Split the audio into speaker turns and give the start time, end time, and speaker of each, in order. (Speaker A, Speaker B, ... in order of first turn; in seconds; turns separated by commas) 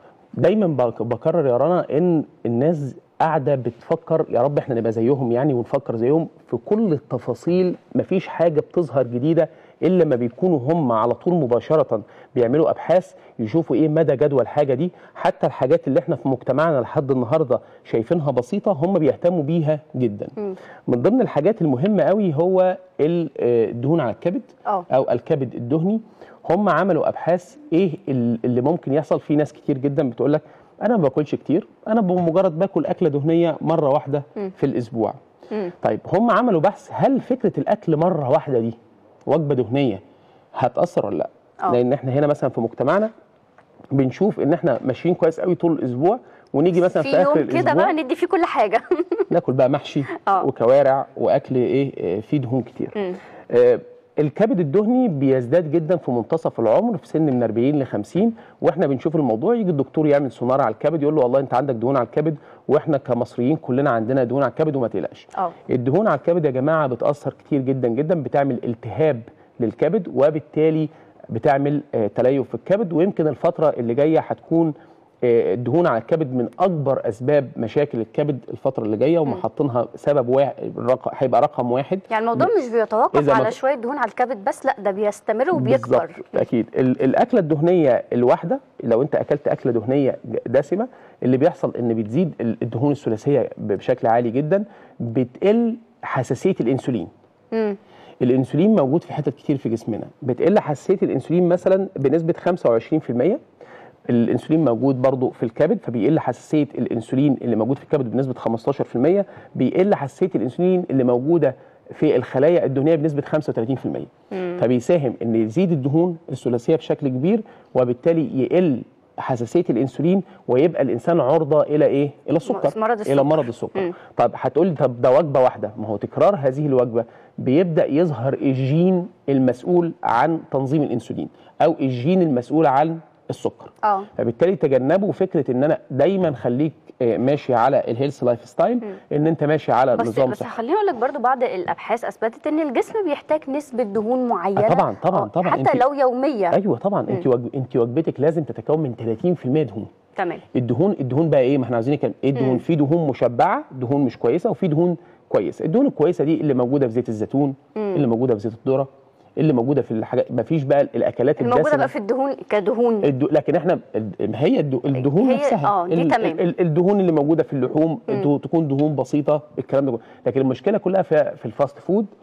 Speaker A: 0.4-20.4, Speaker A: 20.9-40.0, Speaker A: 40.6-43.1, Speaker A: 43.9-48.0, Speaker B: 46.8-49.3, Speaker A: 49.3-53.0, Speaker B: 50.1-50.5, Speaker A: 53.5-82.5, Speaker B: 82.1-86.3, Speaker A: 83.1-83.6, Speaker A: 85.5-97.1, Speaker A: 98.2-103.4, Speaker A: 104.1-140.6, Speaker B: 122.4-123.9, Speaker B: 139.9-146.6, Speaker A: 144.6-145.8, Speaker A: 146.5-149.9, Speaker B: 150.2-150.4, Speaker A: 150.5-161.9, Speaker B: 152.4-152.6, Speaker B: 157.8-158.0, Speaker B: 161.4-163.1, Speaker A: 163.0-172.1, Speaker B: 165.0-166.4